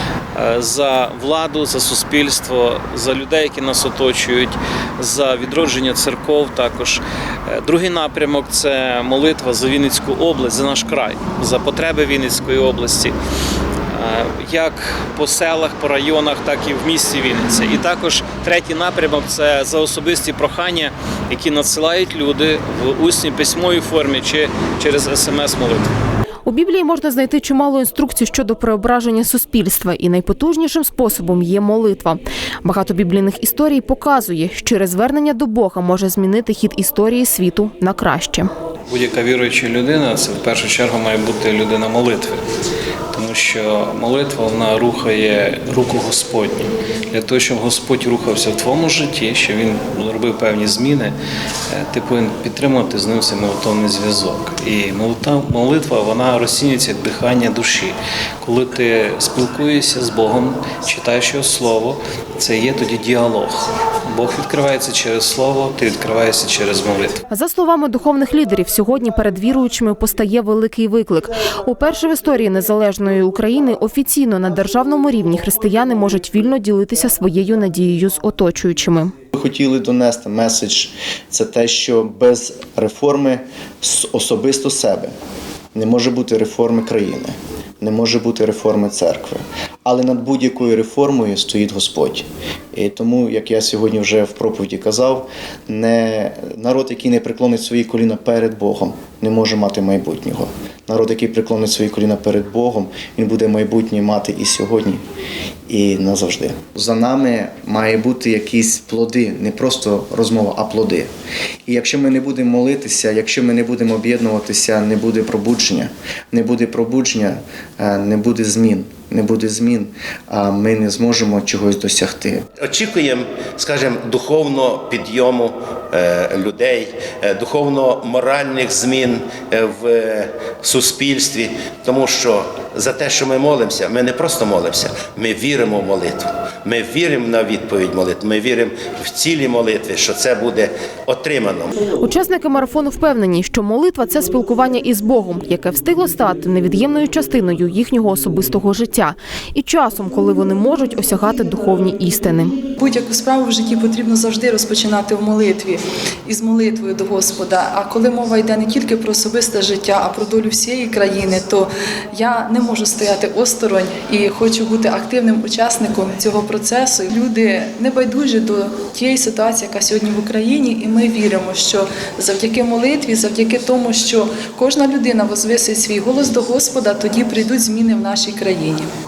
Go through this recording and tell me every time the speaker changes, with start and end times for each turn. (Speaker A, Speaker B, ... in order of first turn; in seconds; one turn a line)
Speaker A: 0.3-13.2
Speaker A: 13.9-25.9
Speaker B: 26.4-38.5
Speaker A: 38.9-42.4
Speaker A: 43.1-51.1
Speaker A: 51.7-67.2
Speaker B: 67.3-79.1
Speaker C: 79.3-85.1
Speaker C: 85.7-105.0
Speaker C: 105.7-111.1
Speaker C: 111.7-122.5
Speaker D: 122.6-141.7
Speaker B: 142.0-152.6
Speaker E: 152.8-178.9